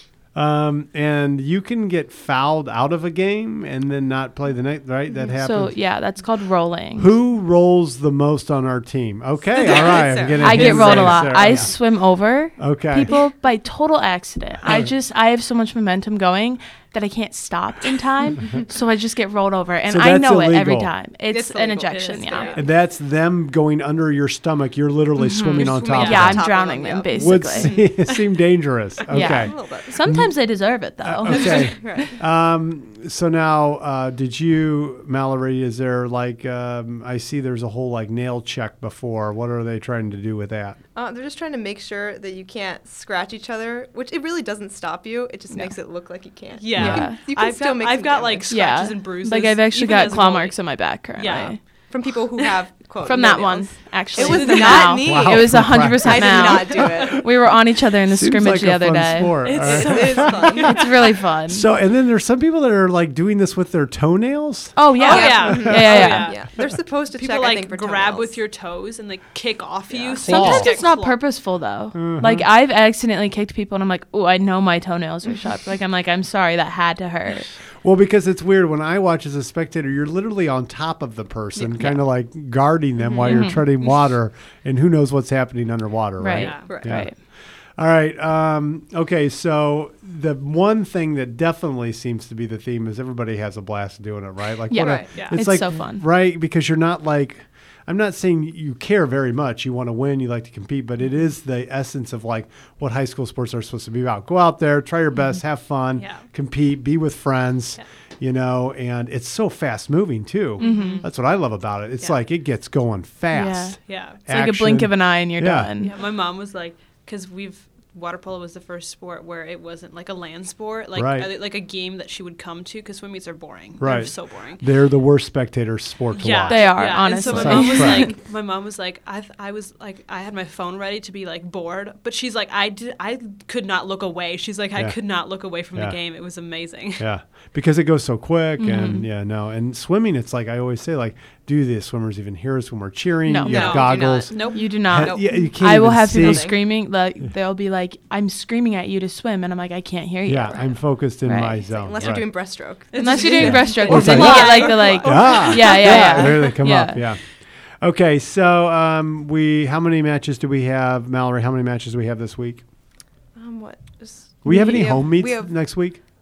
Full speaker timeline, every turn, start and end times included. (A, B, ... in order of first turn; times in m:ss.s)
0:00.3-0:05.8 A
0:05.4-0:07.1 B
0:06.9-0:13.1 A
0:09.5-0:11.4 C
0:10.4-0:22.6 B
0:14.6-0:14.9 A
0:19.8-0:20.9 A
0:21.3-0:22.6 C
0:21.9-0:22.6 D
0:22.5-0:26.5 A
0:25.2-0:27.7 B
0:25.6-0:26.4 D
0:26.1-0:28.1 C
0:27.1-0:30.3 A
0:29.1-0:32.1 B
0:29.2-0:30.0 C
0:31.0-0:40.8 A
0:31.2-0:32.1 C
0:40.9-0:48.5 C
0:45.5-0:45.8 B
0:46.5-0:51.6 D
0:46.7-0:47.0 A
0:46.7-0:47.2 B
0:48.5-0:51.6 B
0:51.9-0:57.2 C
0:53.0-0:59.5 B
0:54.2-0:55.0 D
0:54.9-0:56.8 A
0:58.1-1:00.5 A
0:59.4-1:00.9 D
0:59.6-1:00.7 C
1:00.6-1:01.6 B
1:01.5-1:04.8 A
1:04.8-1:06.3 B
1:05.0-1:11.2 D
1:05.0-1:08.4 C
1:09.9-1:10.2 C
1:10.2-1:10.7 A
1:10.2-1:17.5 B
1:11.9-1:12.4 A
1:17.8-1:27.2 A
1:21.6-1:22.0 B
1:23.0-1:23.5 C
1:23.2-1:23.7 B
1:26.2-1:27.2 B
1:26.4-1:26.7 D
1:26.7-1:27.0 C
1:27.8-1:55.7 A
1:34.7-1:36.0 B
1:34.7-1:35.3 C
1:46.0-1:46.3 D
1:50.6-1:51.0 B
1:50.6-1:51.0 D
1:53.3-1:55.9 B
1:53.8-1:54.2 D
1:55.8-2:04.6 D
2:00.9-2:01.3 A
2:03.8-2:08.1 A
2:06.1-2:17.0 D
2:06.5-2:08.1 B
2:15.7-2:16.0 A
2:17.0-2:26.5 A
2:18.6-2:19.1 B
2:23.2-2:31.8 B
2:23.5-2:24.7 D
2:23.5-2:25.4 C
2:26.1-2:26.6 C
2:30.2-2:32.6 A
2:31.7-2:36.5 C
2:32.9-2:35.3 D
2:32.9-2:37.0 B
2:33.4-2:37.3 A
2:37.8-2:42.6 A
2:43.3-2:45.6 C
2:44.4-2:46.0 A
2:44.4-2:45.1 B